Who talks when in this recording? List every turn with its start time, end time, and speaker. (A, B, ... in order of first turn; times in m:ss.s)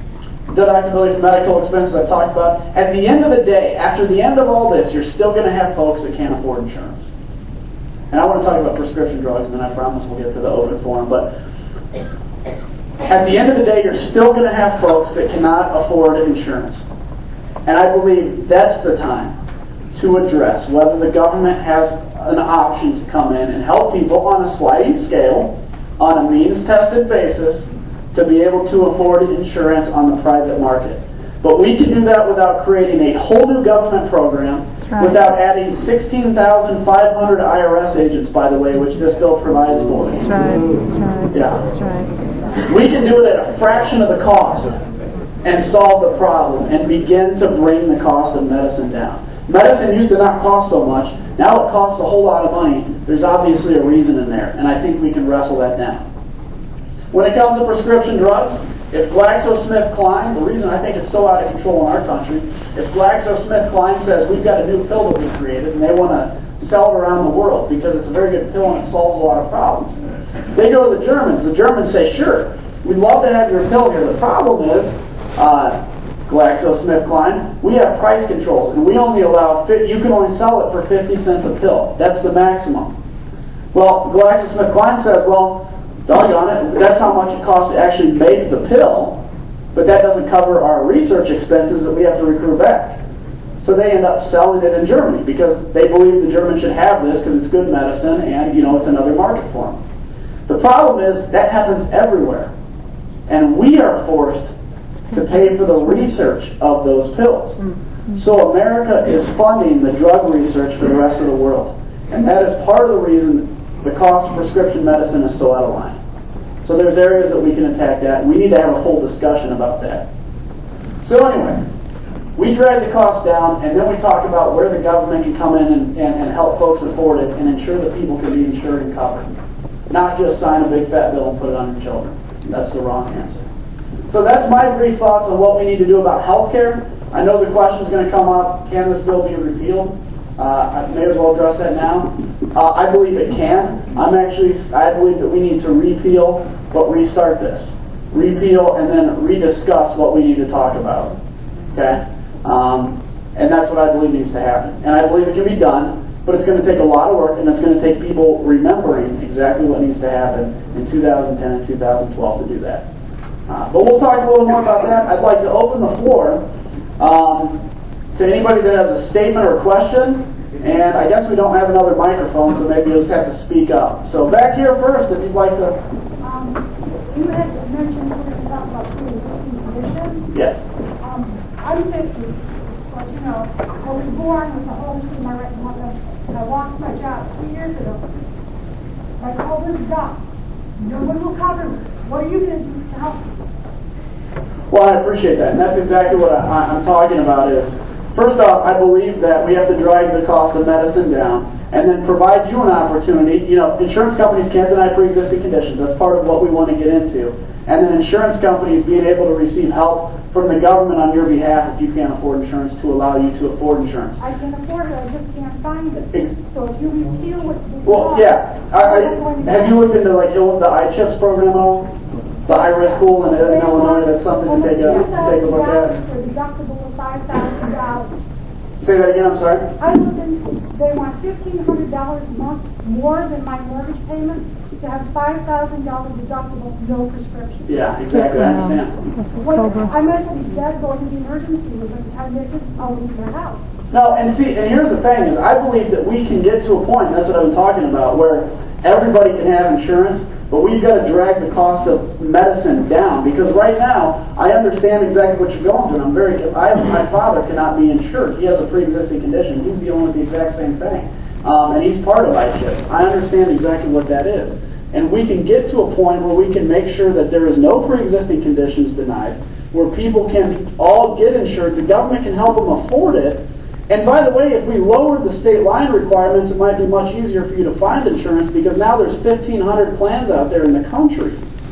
0:00.5-0:07.1 A
0:08.1-0:11.3 A
0:13.0-0:16.9 A
0:17.7-0:19.3 A
0:19.9-0:40.3 A
0:34.8-0:35.2 B
0:40.2-0:42.1 B
0:41.3-0:41.6 A
0:42.6-0:44.8 A
0:45.4-0:56.1 A
0:57.1-1:10.0 A
1:10.5-1:22.9 A
1:23.7-1:29.2 A
1:29.7-1:33.0 A
1:33.6-1:39.8 A
1:40.5-1:42.5 A
1:43.3-1:44.5 A
1:45.1-1:47.6 A
1:48.1-1:56.0 A
1:56.6-2:00.1 A
2:01.0-2:01.6 A
2:02.4-2:09.3 A
2:09.9-2:13.4 A
2:14.1-2:31.1 A
2:31.7-2:42.9 A
2:43.5-2:46.4 A
2:47.0-2:47.6 A
2:48.2-2:55.8 A
2:56.2-3:00.3 C
3:00.3-3:00.6 A
3:01.0-3:08.0 C
3:09.2-3:10.2 C
3:10.8-3:13.2 C
3:14.7-3:34.2 A
3:34.2-3:39.9 C
3:37.8-3:41.9 A
3:42.5-3:45.9 A
3:42.5-3:48.1 C
3:48.8-3:49.7 A
3:49.8-3:57.7 C
3:57.7-3:59.0 A
3:58.1-3:59.9 B
3:59.4-4:03.7 C
4:03.9-4:41.4 A